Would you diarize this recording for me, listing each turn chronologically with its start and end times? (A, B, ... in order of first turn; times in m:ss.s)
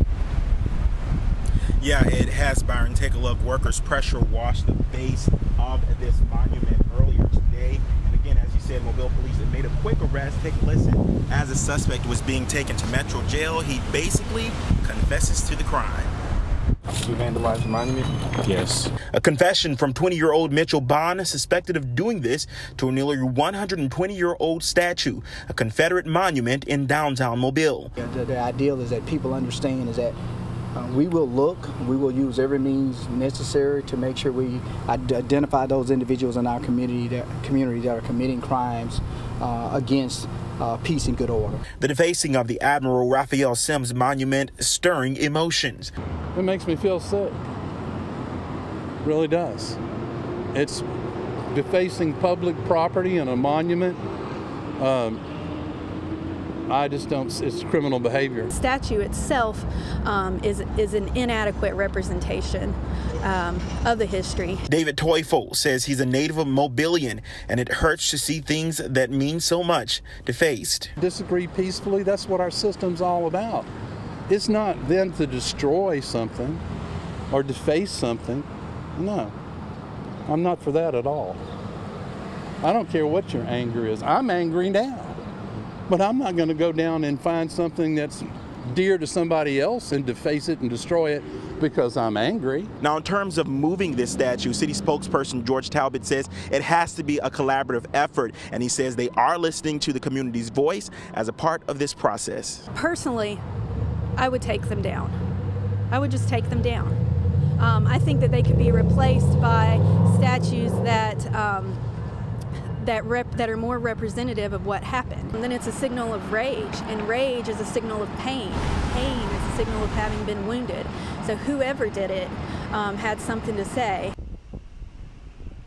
0:01.8-0:16.1 A
0:16.9-0:27.9 A
0:28.0-0:30.2 B
0:30.8-0:41.6 B
0:41.8-0:45.9 A
0:46.3-0:47.4 C
0:49.0-0:49.8 C
0:50.5-0:50.9 C
0:51.5-0:54.0 C
0:54.8-0:55.2 C
0:56.7-0:58.5 C
0:58.5-1:04.6 D
1:04.7-1:10.9 A
1:11.0-1:13.7 C
1:14.3-1:16.6 C
1:17.3-1:19.3 C
1:20.3-1:21.4 C
1:22.6-1:25.2 C
1:25.9-1:32.7 C
1:32.8-1:42.7 A
1:42.8-1:43.4 D
1:44.2-1:45.2 D
1:45.9-1:47.0 D
1:47.6-1:51.8 D
1:52.8-2:04.1 D